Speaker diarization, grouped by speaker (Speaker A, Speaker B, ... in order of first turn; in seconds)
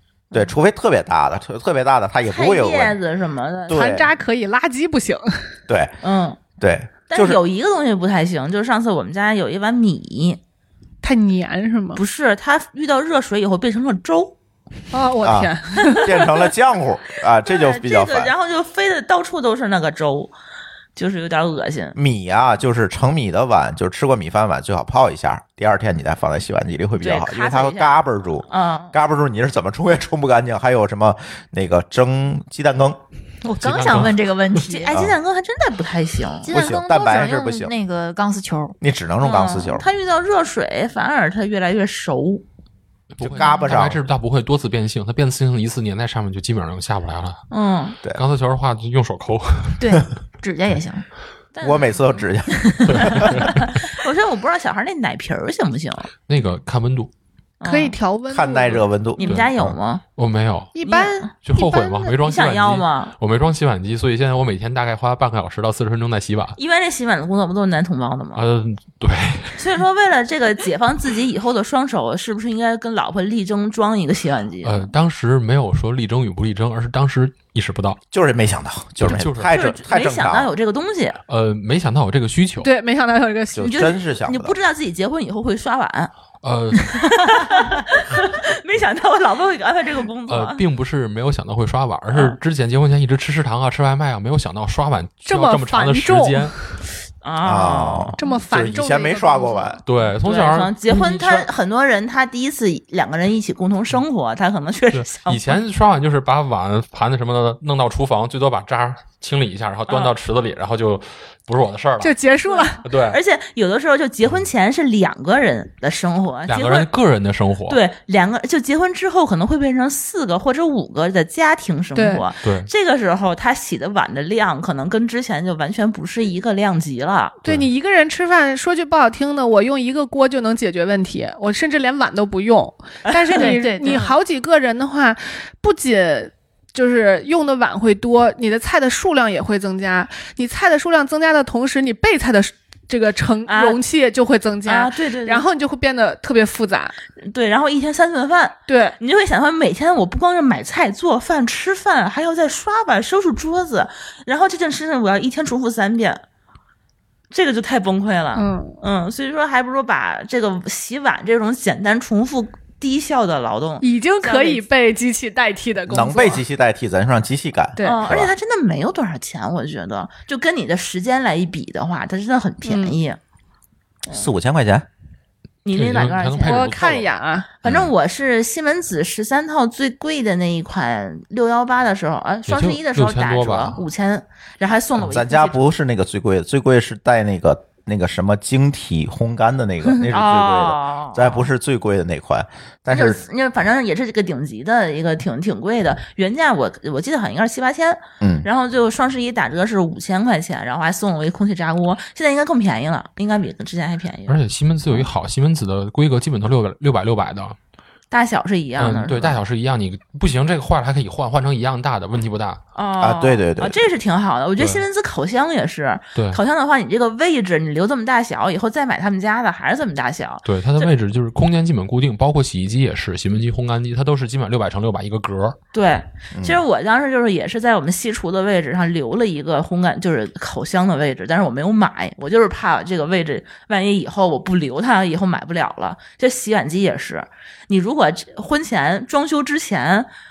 Speaker A: 0.3-3.0, 3.7-4.1, 5.7-5.9, 6.6-7.4, 15.2-18.3, 21.9-33.0, 36.5-37.7, 38.8-39.9, 43.2-44.0, 51.6-53.4, 58.3-59.7, 78.1-80.5, 83.5-84.6, 97.4-99.8, 165.9-168.3, 174.1-174.8, 177.6-177.9, 185.0-193.2, 198.2-198.5, 213.0-213.8, 226.3-226.6
Speaker B: 2.2-3.8, 6.0-6.4, 7.1-10.4, 11.9-14.3, 15.8-16.3, 17.4-20.3, 20.9-22.0, 27.0-28.9, 34.7-36.5, 39.2-42.4, 47.5-48.0, 51.5-52.3, 53.0-56.1, 57.6-58.0, 59.1-60.0, 60.8-63.1, 66.5-68.4, 69.5-74.9, 79.5-81.2, 83.6-86.1, 86.7-90.6, 92.1-92.4, 97.2-98.2, 100.2-105.6, 109.9-110.1, 112.5-116.9, 117.7-127.3, 133.1-134.1, 143.4-143.8, 144.6-145.4, 147.2-156.2, 157.3-164.6, 167.8-173.2, 175.6-176.6, 177.6-185.6, 189.8-191.5, 192.9-204.4, 208.1-209.4, 212.7-220.9, 225.7-240.1
Speaker C: 3.7-5.5, 11.0-12.0, 14.9-16.1, 57.6-58.9, 60.7-61.8, 82.6-83.9, 95.2-96.5, 98.2-99.8, 112.0-112.8, 121.9-122.2, 127.4-146.9, 148.7-149.0, 158.3-158.8, 163.8-166.4, 167.8-168.0, 172.6-173.0, 176.4-177.5
Speaker D: 33.4-34.9, 36.4-38.8, 49.8-51.1, 52.6-53.0, 133.3-134.1
Speaker E: 33.6-34.2, 43.1-47.5, 48.1-49.9, 52.8-53.6, 56.3-57.1, 59.2-59.5, 60.1-60.8, 61.4-66.6, 68.3-69.6, 74.6-78.0, 79.0-79.5, 81.3-82.7, 86.4-87.0, 90.3-96.8, 99.8-101.5, 104.9-112.1, 112.8-113.2, 116.5-117.8, 122.4-122.7, 175.7-177.1, 182.5-183.8, 204.3-207.6, 208.8-212.6, 214.6-214.8, 216.1-216.4, 220.4-225.6